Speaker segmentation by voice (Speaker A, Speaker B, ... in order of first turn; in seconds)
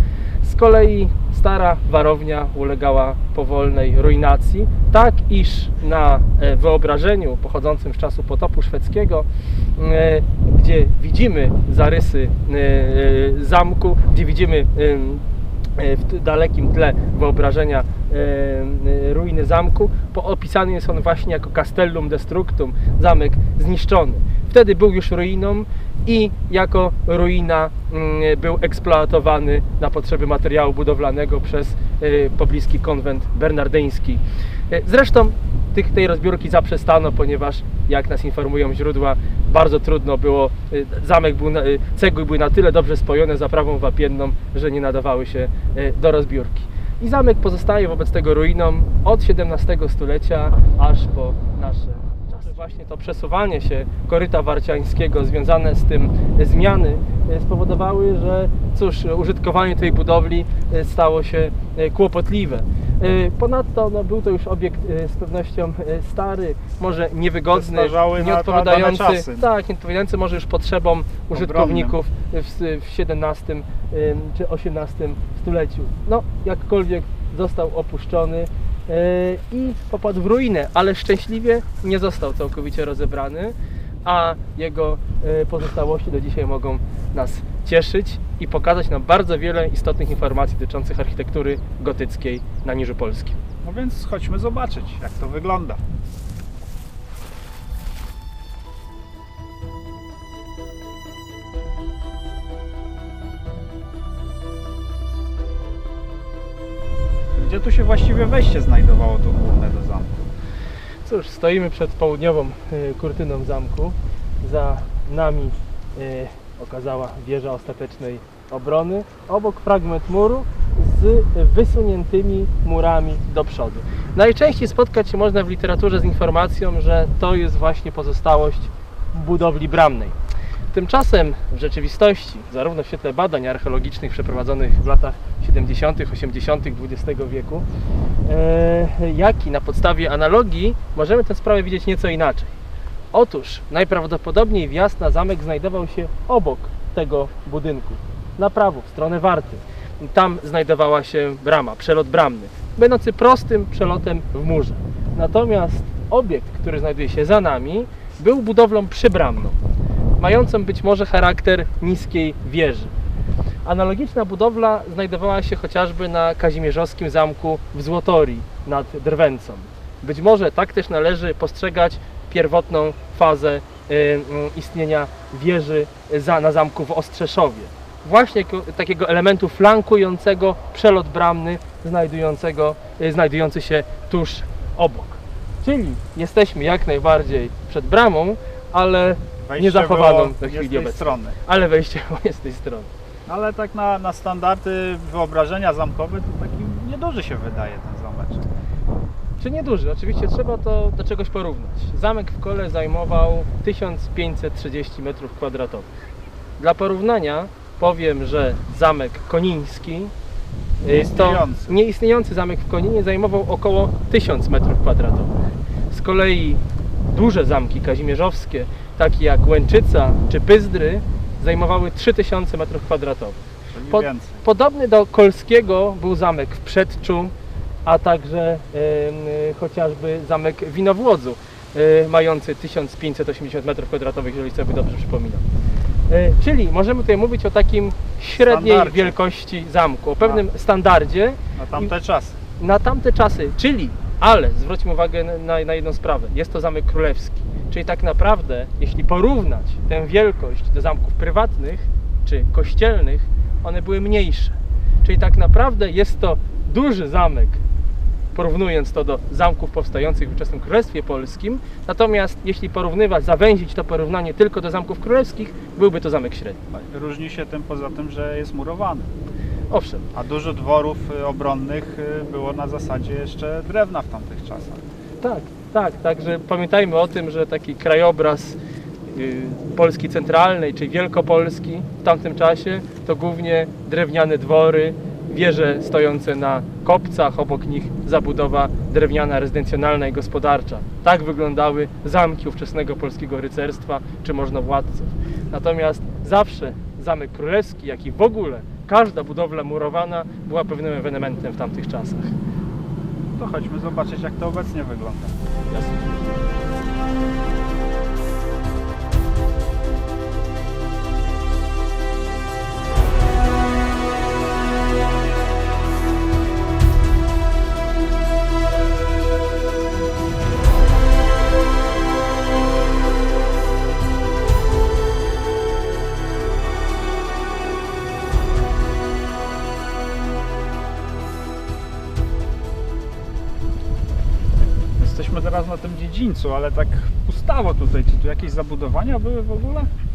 Speaker A: 0.4-9.3, 9.8-15.2, 15.8-93.4, 111.0-130.2, 130.7-137.7, 138.3-142.5, 143.1-159.6, 160.2-162.9, 163.7-192.9, 199.4-205.9, 206.6-210.1, 210.8-215.3, 215.9-227.3, 227.9-235.4, 236.1-241.9, 242.6-257.6, 258.3-266.6, 269.7-270.1, 275.2-278.6, 279.1-302.4, 305.7-306.3
Speaker B: 67.5-69.5, 71.3-72.0, 93.6-95.8, 107.3-110.2, 189.4-191.4, 193.3-198.5, 210.9-211.8, 223.7-224.4, 238.4-239.2, 241.6-242.4, 266.7-269.1, 270.1-274.8, 303.4-305.4, 335.0-339.9